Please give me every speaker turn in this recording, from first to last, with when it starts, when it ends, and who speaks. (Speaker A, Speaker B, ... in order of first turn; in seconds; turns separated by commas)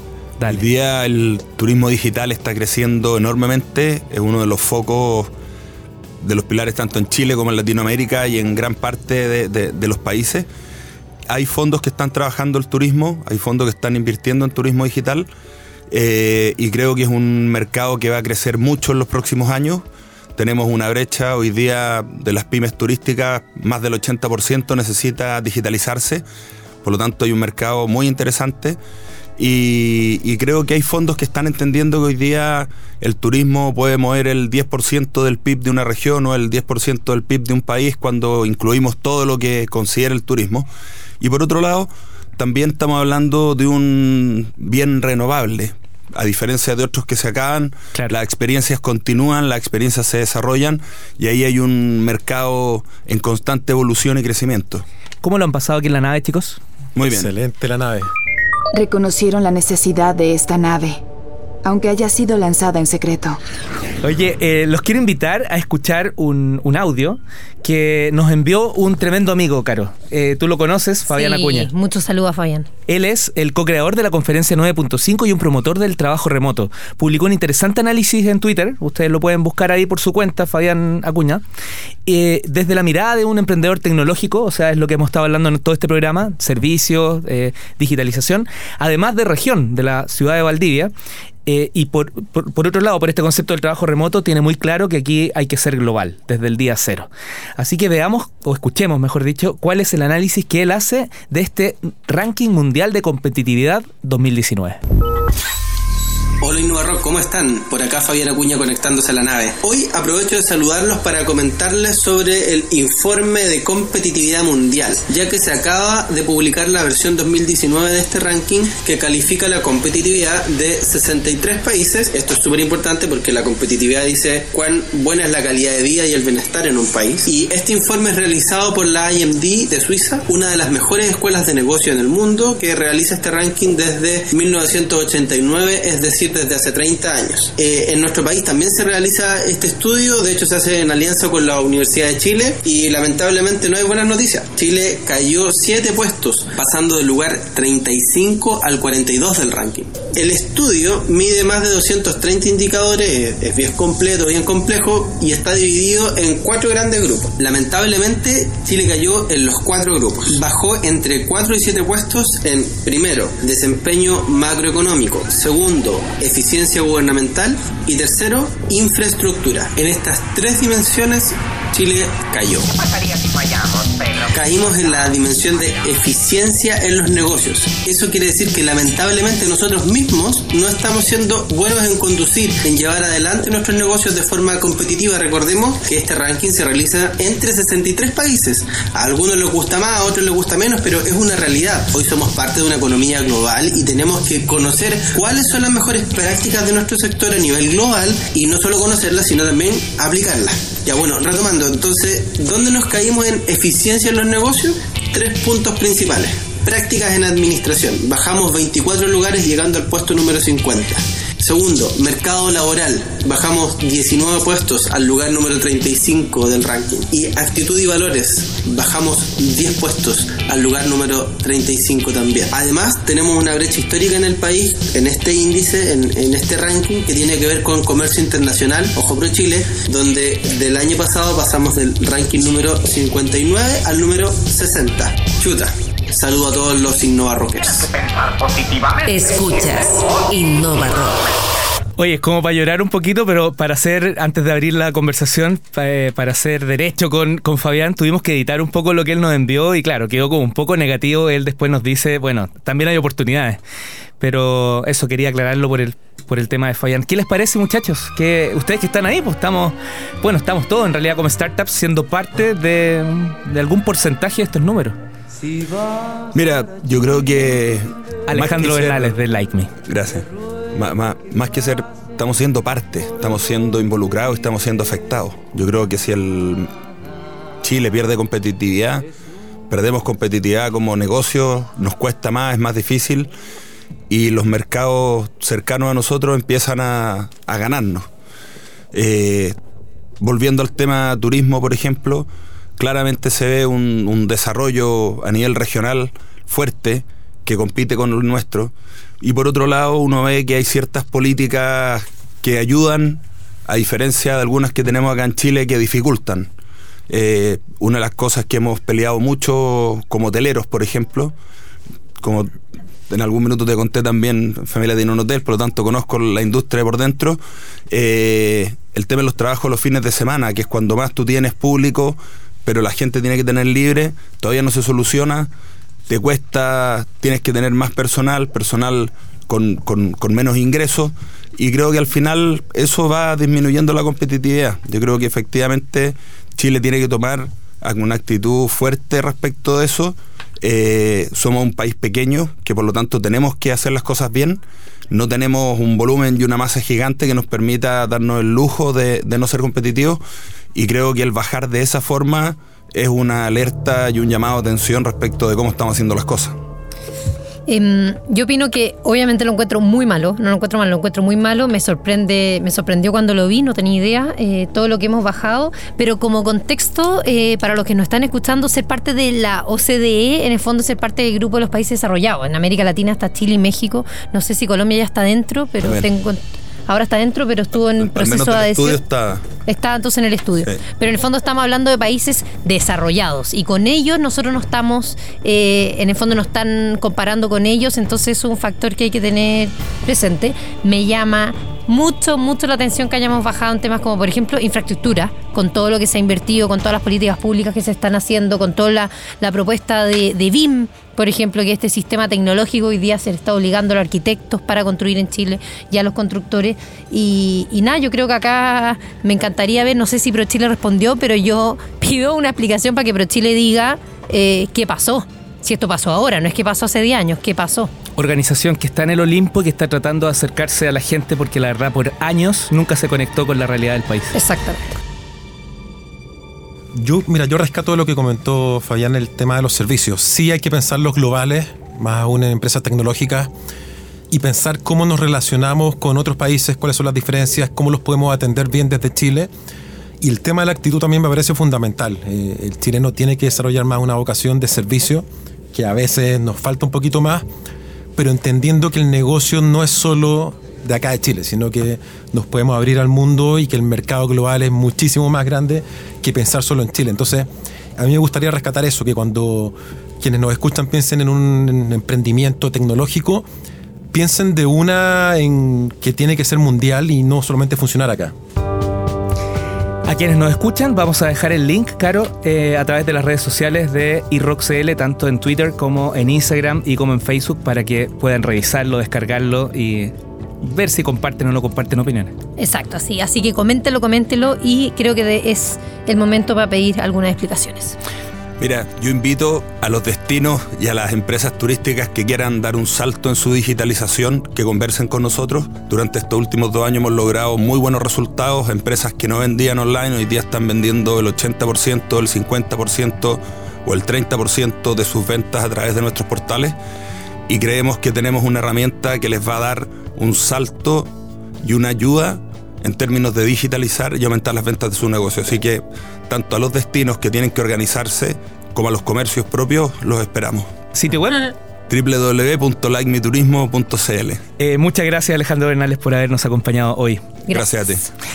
Speaker A: 0.4-0.7, Speaker B: 0.5-5.3, Speaker B: 6.2-10.5, Speaker B: 11.3-15.3, Speaker B: 15.9-19.9, Speaker B: 20.4-26.2, Speaker B: 26.8-28.8, Speaker B: 29.4-40.7, Speaker B: 41.2-54.9, Speaker A: 55.2-56.6, Speaker B: 57.0-57.3, Speaker C: 57.1-58.1, Speaker D: 58.7-61.0, Speaker D: 61.6-63.4, Speaker A: 64.0-71.7, Speaker E: 71.1-72.7, Speaker A: 72.9-81.4, Speaker A: 82.1-90.9, Speaker A: 91.5-104.8, Speaker F: 106.4-172.8, Speaker F: 174.1-237.9, Speaker G: 239.1-241.3, Speaker A: 242.0-253.6, Speaker A: 254.2-265.0, Speaker B: 266.3-269.1, Speaker A: 268.3-269.7, Speaker B: 269.9-276.7, Speaker B: 277.6-279.1, Speaker B: 279.7-283.3, Speaker B: 284.1-288.1, Speaker B: 288.9-289.6, Speaker B: 290.2-306.5, Speaker B: 307.1-311.4, Speaker B: 312.2-325.5, Speaker B: 326.1-350.2, Speaker B: 350.7-356.6, Speaker E: 357.7-379.0, Speaker B: 378.0-379.4, Speaker E: 379.7-417.9, Speaker A: 418.2-424.3, Speaker E: 424.3-424.9, Speaker C: 426.9-433.5, Speaker C: 434.3-439.5, Speaker C: 440.2-447.4, Speaker C: 448.2-463.4, Speaker C: 464.1-468.3, Speaker A: 470.1-482.3, Speaker E: 482.6-488.0, Speaker B: 488.6-506.8, Speaker B: 507.5-511.1, Speaker B: 511.6-520.7, Speaker A: 520.9-521.5, Speaker B: 521.9-524.4, Speaker A: 524.6-527.4, Speaker B: 527.5-528.1